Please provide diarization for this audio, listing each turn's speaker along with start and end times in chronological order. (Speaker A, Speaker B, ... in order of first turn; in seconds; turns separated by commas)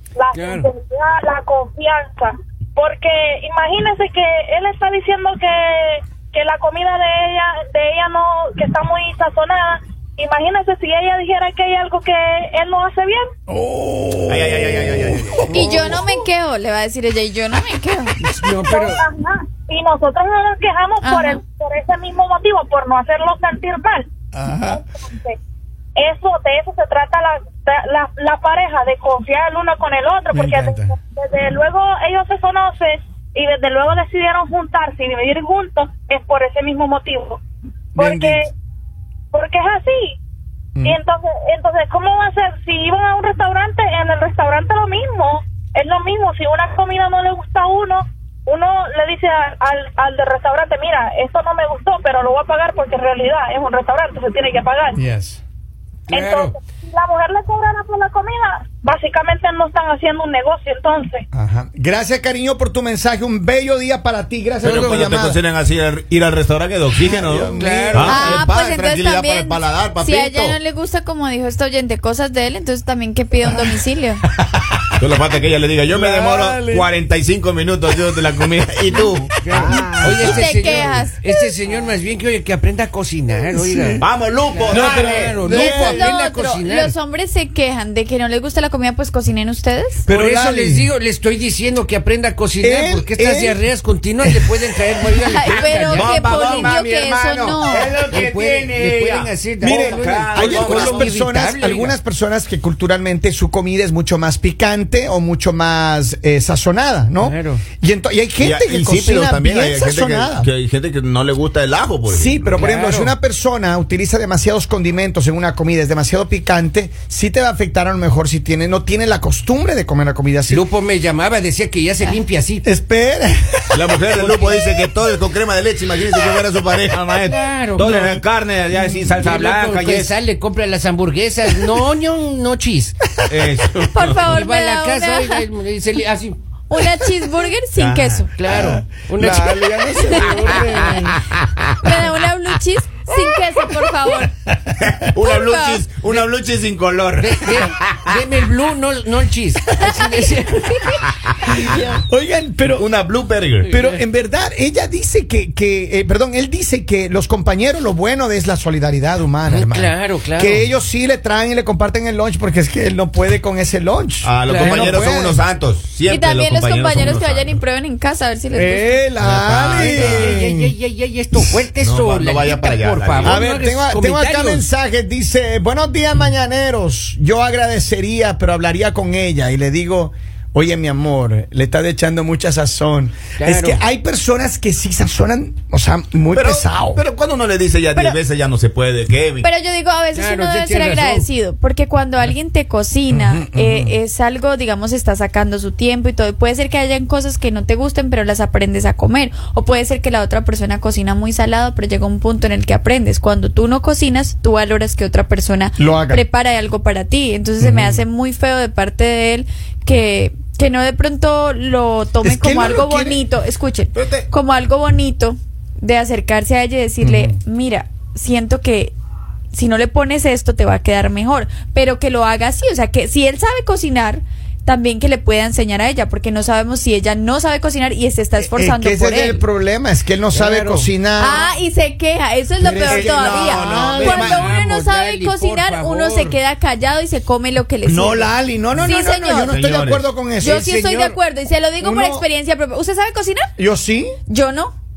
Speaker A: 0.2-13.2, Speaker B: 0.4-0.7, Speaker C: 13.5-16.0, Speaker D: 14.3-16.0, Speaker E: 15.5-18.2, Speaker B: 18.2-19.0, Speaker A: 18.7-25.4, Speaker E: 21.0-21.4, Speaker C: 24.3-24.8, Speaker A: 26.0-37.4, Speaker C: 30.3-30.9, Speaker C: 38.0-38.4, Speaker A: 38.0-38.5, Speaker A: 39.3-40.1, Speaker A: 40.8-55.0, Speaker C: 55.0-55.4, Speaker A: 56.1-61.2, Speaker B: 56.2-56.5, Speaker C: 61.3-65.4, Speaker D: 64.6-70.6, Speaker B: 64.7-65.0, Speaker C: 67.0-68.4, Speaker B: 67.5-68.0, Speaker E: 68.0-74.2, Speaker C: 73.4-73.8, Speaker D: 75.0-80.5, Speaker C: 75.9-76.9, Speaker C: 79.4-80.4, Speaker B: 79.4-83.9, Speaker E: 80.2-81.5, Speaker C: 83.5-84.0, Speaker D: 84.0-85.8, Speaker B: 84.5-86.9, Speaker C: 84.7-86.2, Speaker E: 85.5-90.1, Speaker C: 90.1-90.9, Speaker B: 90.1-96.0, Speaker C: 92.6-93.6, Speaker E: 95.3-98.0, Speaker D: 95.7-101.2, Speaker B: 98.1-102.0, Speaker C: 99.6-110.5, Speaker B: 107.2-107.6, Speaker D: 108.4-112.7, Speaker C: 112.1-120.6, Speaker B: 112.5-113.1, Speaker B: 120.5-122.6, Speaker C: 122.6-123.8, Speaker D: 123.7-130.2, Speaker B: 127.2-128.2, Speaker C: 128.9-129.1, Speaker B: 129.1-132.9, Speaker D: 133.3-134.3, Speaker E: 133.9-135.5, Speaker B: 134.3-136.3, Speaker E: 136.7-138.3, Speaker D: 137.8-138.6, Speaker B: 138.4-139.5, Speaker C: 138.5-141.2, Speaker E: 139.9-140.9, Speaker E: 141.8-144.3, Speaker D: 144.8-148.2, Speaker E: 145.2-145.9, Speaker B: 147.2-150.8, Speaker E: 149.8-151.1, Speaker C: 151.5-152.9, Speaker D: 152.7-153.7, Speaker C: 153.7-165.4, Speaker B: 159.5-160.6, Speaker D: 164.2-167.6, Speaker B: 164.5-164.7, Speaker E: 166.1-169.0, Speaker C: 168.5-170.8, Speaker D: 169.2-170.4, Speaker B: 169.8-174.6, Speaker D: 171.7-173.5, Speaker C: 173.2-187.0, Speaker B: 183.4-183.8, Speaker D: 186.3-189.5, Speaker E: 189.4-218.9, Speaker B: 190.1-191.2, Speaker C: 193.1-194.0, Speaker C: 205.8-206.2, Speaker C: 207.6-208.0, Speaker C: 212.2-213.2, Speaker D: 213.9-214.3, Speaker C: 217.0-217.4, Speaker E: 219.5-229.4, Speaker C: 228.4-231.5, Speaker B: 230.3-230.9, Speaker E: 231.2-239.6, Speaker C: 232.6-234.5, Speaker D: 232.9-234.5, Speaker B: 234.3-236.3, Speaker C: 237.8-241.1, Speaker D: 239.4-240.1, Speaker E: 240.4-243.5, Speaker C: 241.8-242.2, Speaker C: 243.6-244.2, Speaker E: 244.3-244.7